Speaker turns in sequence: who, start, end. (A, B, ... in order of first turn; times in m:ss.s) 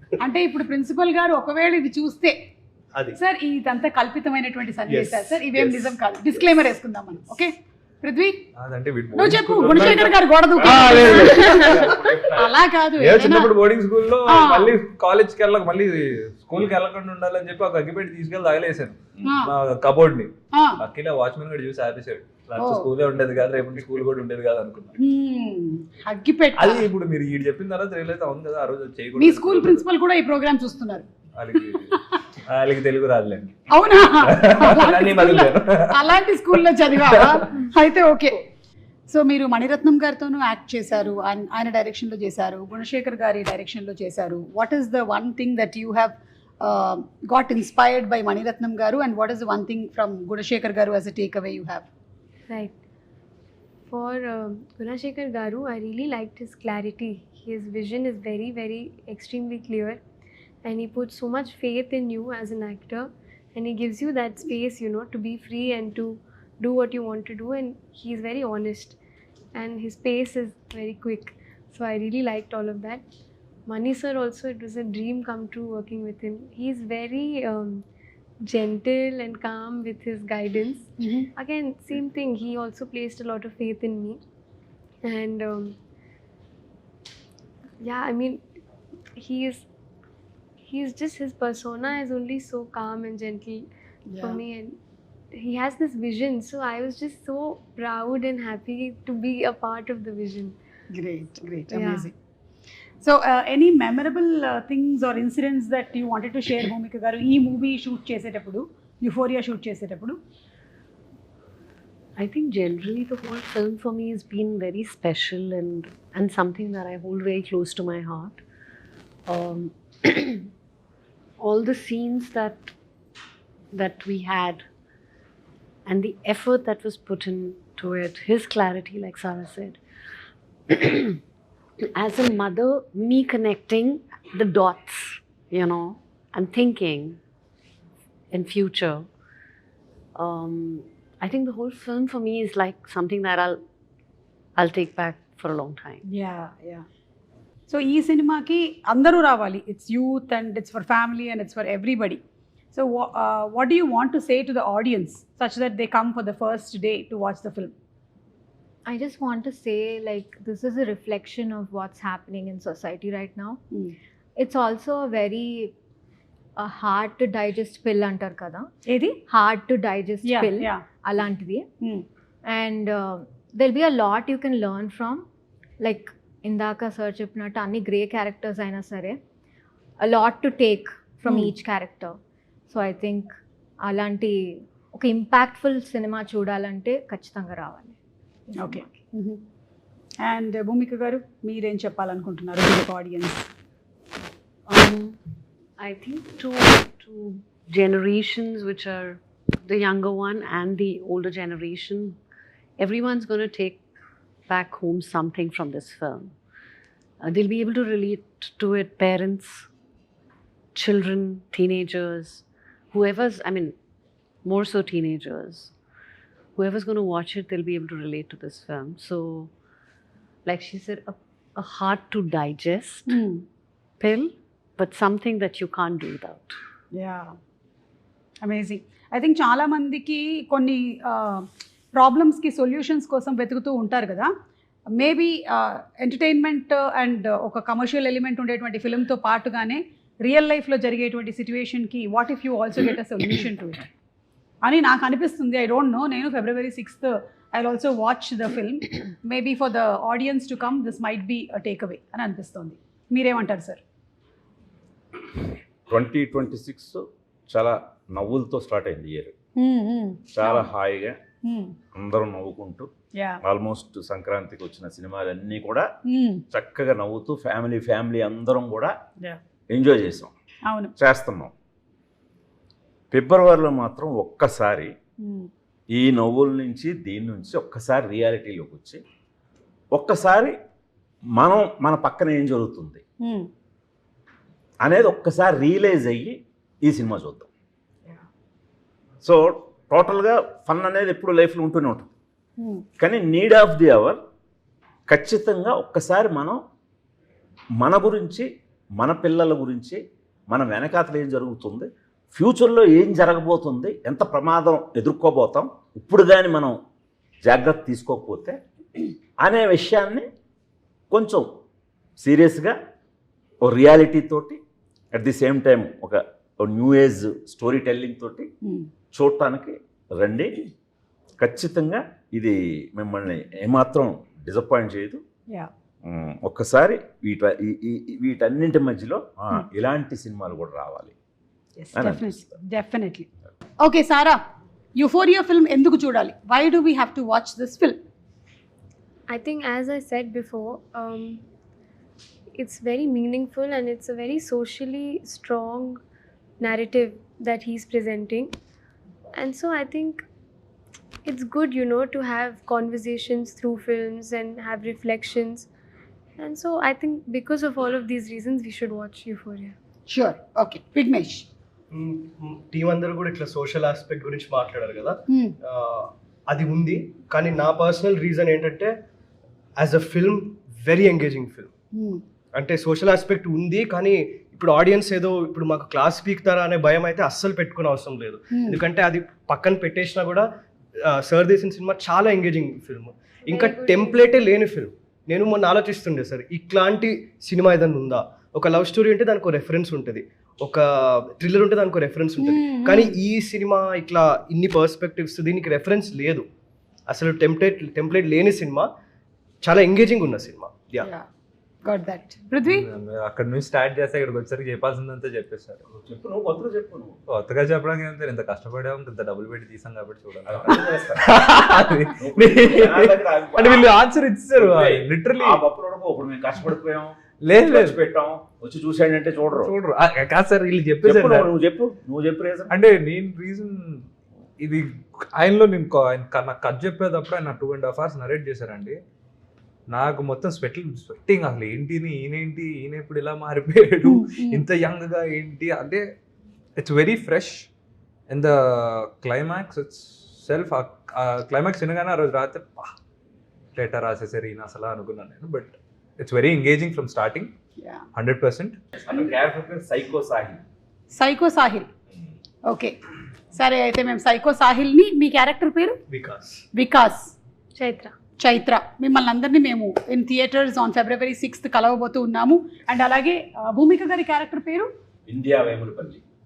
0:00.2-0:02.4 A
0:02.9-0:03.2 B
0:03.1-0:08.4 A
0:04.9-0:05.9 B
0:08.5-0:11.9 C
0:09.1-0:13.5 A
0:09.6-0:12.6 D
0:13.0-0:25.0 C
0:14.2-0:14.7 A
0:19.2-0:19.5 A
0:20.5-0:20.8 A
0:22.6-0:22.9 A
0:25.0-0:26.9 A
0:26.6-0:29.8 C
0:29.2-0:31.1 A
0:31.3-0:37.4 C
0:31.9-0:32.2 A
0:33.7-0:38.5 A
0:39.1-0:51.9 A
0:52.5-0:52.7 E
0:53.9-1:00.0 E
1:00.6-1:09.0 E
1:09.5-1:13.0 E
1:13.7-1:17.8 E
1:18.4-1:24.2 E
1:21.0-1:21.3 A
1:25.0-1:25.8 E
1:27.8-1:28.4 E
1:29.2-1:29.6 E
1:30.6-1:33.6 E
1:34.1-1:34.4 A
1:34.2-1:34.8 E
1:35.3-1:40.6 E
1:40.9-1:42.1 A
1:41.7-1:42.1 E
1:43.0-1:50.2 A
1:52.2-1:58.4 F
1:59.3-2:00.4 F
2:01.4-2:02.7 F
2:03.7-2:04.6 F
2:05.8-2:09.8 F
2:10.7-2:11.2 F
2:11.9-2:17.2 F
2:18.3-2:19.0 F
2:20.1-2:23.6 F
2:24.6-2:26.0 F
2:26.0-2:26.8 A
2:27.7-2:32.2 A
2:32.7-2:37.7 A
2:38.9-2:43.6 G
2:44.4-2:45.7 G
2:46.6-2:48.7 G
2:48.9-2:49.2 A
2:49.3-2:51.7 G
2:50.2-2:50.8 A
2:52.4-2:55.2 G
2:55.8-2:59.2 G
3:00.0-3:02.2 G
3:02.7-3:03.3 G
3:03.8-3:08.0 G
3:08.5-3:09.4 A
3:10.2-3:13.5 A
3:14.7-3:15.2 F
3:15.8-3:22.2 F
3:22.8-3:23.8 F
3:24.5-3:26.3 F
3:27.2-3:29.6 F
3:30.7-3:33.7 F
3:34.4-3:35.7 F
3:36.6-3:39.5 F
3:40.4-3:43.1 F
3:43.1-3:43.4 A
3:44.0-3:46.6 F
3:46.9-3:47.3 A
3:48.4-3:54.3 A
3:55.0-4:03.9 A
4:04.6-4:13.8 A
4:15.9-4:19.3 D
4:19.6-4:20.7 A
4:20.3-4:21.2 D
4:21.4-4:21.7 A
4:21.9-4:22.9 D
4:23.1-4:23.4 A
4:23.4-4:25.8 D
4:26.1-4:26.4 A
4:26.5-4:28.9 D
4:29.7-4:30.3 D
4:30.7-4:30.9 A
4:31.0-4:31.5 D
4:33.1-4:34.9 D
4:35.2-4:35.5 A
4:35.9-4:39.0 D
4:39.9-4:40.5 D
4:41.3-4:43.0 D
4:43.2-4:43.5 A
4:44.8-4:47.5 D
4:49.2-4:52.1 D
4:52.6-4:52.8 A
4:53.0-4:54.2 D
4:55.1-4:56.6 D
4:57.8-5:06.7 D
5:07.4-5:08.6 D
5:09.4-5:10.3 D
5:11.1-5:11.5 D
5:12.2-5:12.8 D
5:13.6-5:14.6 D
5:15.1-5:18.5 D
5:18.6-5:18.9 A
5:19.1-5:20.6 D
5:21.4-5:25.2 D
5:26.0-5:31.1 D
5:31.8-5:33.2 A
5:31.9-5:32.5 D
5:33.8-5:34.4 A
5:35.0-5:38.0 A
5:39.3-5:41.4 E
5:42.5-5:46.0 E
5:46.6-5:48.5 E
5:49.3-5:50.2 E
5:51.2-5:55.7 E
5:56.4-5:59.7 E
6:00.1-6:01.4 A
6:01.9-6:08.9 B
6:05.3-6:05.5 A
6:09.8-6:11.7 B
6:11.9-6:12.2 A
6:12.5-6:20.4 B
6:18.5-6:18.8 A
6:21.1-6:36.4 B
6:23.4-6:24.3 E
6:32.4-6:33.2 A
6:37.1-6:38.9 B
6:39.6-6:41.1 B
6:41.0-6:41.3 A
6:41.8-6:42.8 A
6:42.6-6:45.8 C
6:45.9-6:47.2 D
6:47.3-6:55.6 C
6:50.5-6:51.3 D
6:52.2-6:53.9 D
6:54.6-6:59.7 D
6:57.4-6:58.0 C
6:59.5-7:01.5 C
7:01.0-7:02.7 D
7:02.7-7:04.0 C
7:04.6-7:09.0 C
7:09.9-7:16.0 C
7:14.0-7:14.6 A
7:16.8-7:17.7 C
7:18.3-7:22.9 C
7:23.8-7:27.5 C
7:27.8-7:28.0 A
7:28.1-7:28.8 C
7:29.0-7:30.6 D
7:31.1-7:31.9 A
7:32.6-7:32.9 A
7:33.5-7:36.0 A
7:36.1-7:36.6 B
7:36.7-7:37.3 A
7:37.7-7:38.1 E
7:38.4-7:44.9 A
7:45.3-7:46.2 D